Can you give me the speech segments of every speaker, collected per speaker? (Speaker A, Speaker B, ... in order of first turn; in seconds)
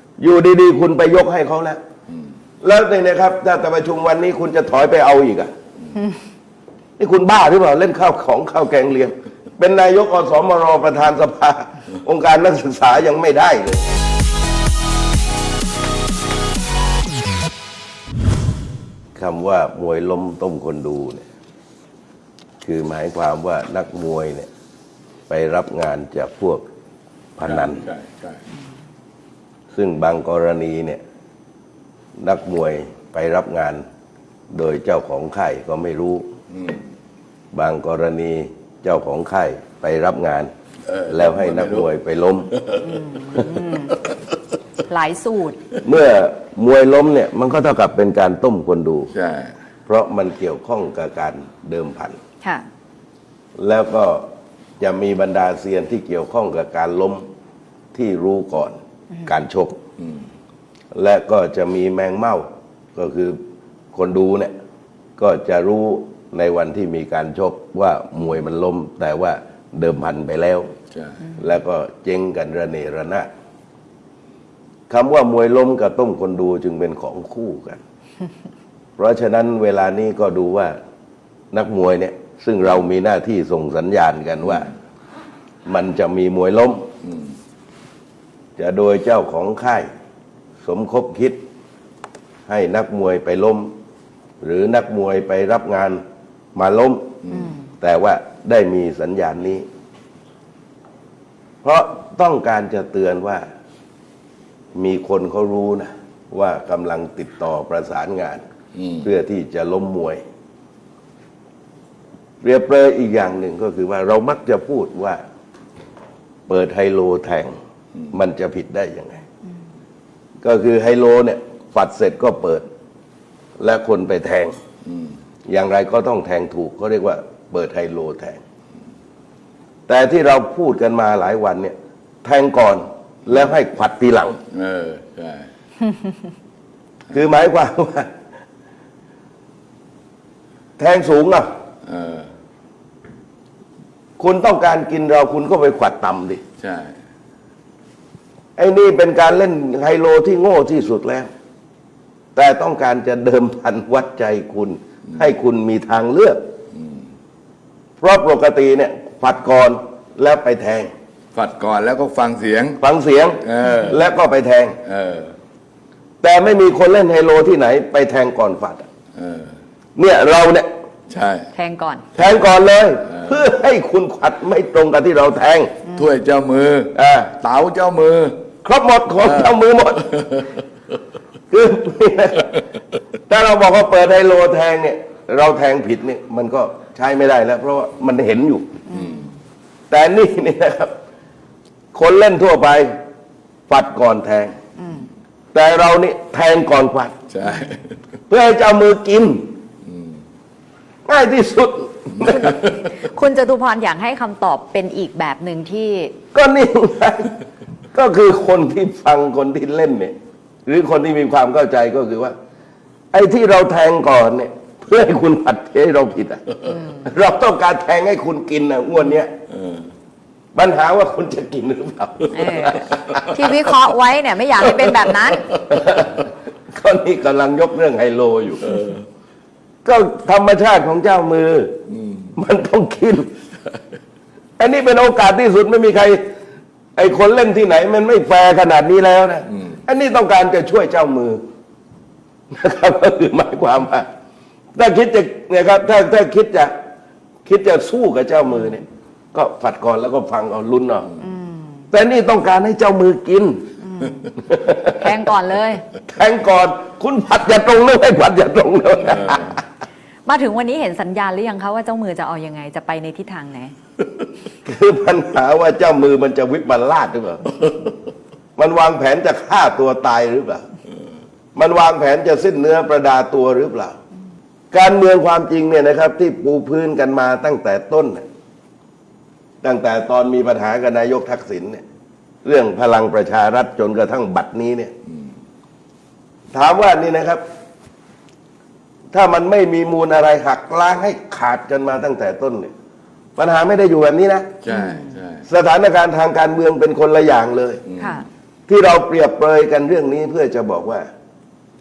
Speaker A: 0.2-1.8, 2.6-5.5, 7.0-13.9, 19.1-21.2, 22.6-24.5, 25.3-26.6, 27.4-27.9, 29.7-31.0, 32.2-33.8, 34.5-36.2, 37.5-40.5, 41.0-42.5, 45.8-49.1, 49.9-52.2, 53.6-54.2, 54.8-57.2, 57.9-59.8, 60.9-63.4, 63.9-64.5, 65.2-70.7, 71.4-73.3, 74.9-77.8, 79.0-80.8, 81.5-84.7, 85.7-86.9, 88.6-89.9, 90.6-91.4, 92.5-93.7, 94.4-96.0, 96.5-97.2, 97.8-99.7, 101.6-103.4, 104.7-108.4, 109.0-110.2, 112.4-115.2, 116.5-117.5, 118.1-119.2, 120.4-122.7, 123.6-124.6, 125.5-128.4, 129.9-134.4, 137.1-138.1, 140.8-141.5, 144.2-146.4, 148.6-151.3, 152.3-156.4, 158.0-160.9, 162.8-164.8, 166.2-168.8, 170.0-170.7, 172.2-175.7, 176.9-177.3, 178.6-180.2, 181.5-182.6, 183.3-188.7, 189.9-190.9, 191.9-192.9, 193.7-194.5, 195.5-197.2, 198.3-199.5, 201.1-202.7, 206.3-207.3, 207.9-210.1, 210.7-212.3, 213.1-219.3, 220.5-223.3, 224.8-228.8, 229.8-231.8, 232.3-233.3, 234.6-236.2, 236.9-241.4, 242.5-244.1, 244.8-246.7, 247.4-251.1, 251.9-253.7, 254.4-255.1, 256.0-259.6, 264.6-267.6, 268.6-270.6, 271.5-273.9, 274.7-278.2, 279.6-281.8, 282.4-284.9, 286.5-287.4, 289.1-292.7, 293.4-294.6, 295.4-297.8, 298.7-301.1
Speaker B: 27.4-28.4, 36.5-36.8, 40.9-41.8, 42.5-42.9, 49.1-49.5, 70.9-71.3, 97.3-97.5, 108.8-109.0, 124.8-125.2, 134.5-135.5, 141.8-142.3, 146.6-146.9, 156.7-157.1, 161.3-162.8, 163.4-164.0, 164.8-165.3, 169.2-169.5, 171.1-171.5, 175.9-178.4, 179.2-179.5, 197.3-198.0, 199.8-200.2, 228.7-229.0, 294.6-295.4, 297.9-298.2
Speaker C: 42.8-44.0, 44.9-45.6, 171.5-172.0, 188.9-189.3, 194.8-195.1, 202.8-206.1, 216.7-217.0, 222.3-225.5, 251.2-251.8, 253.8-255.8, 260.2-263.7, 294.7-295.1, 298.0-298.2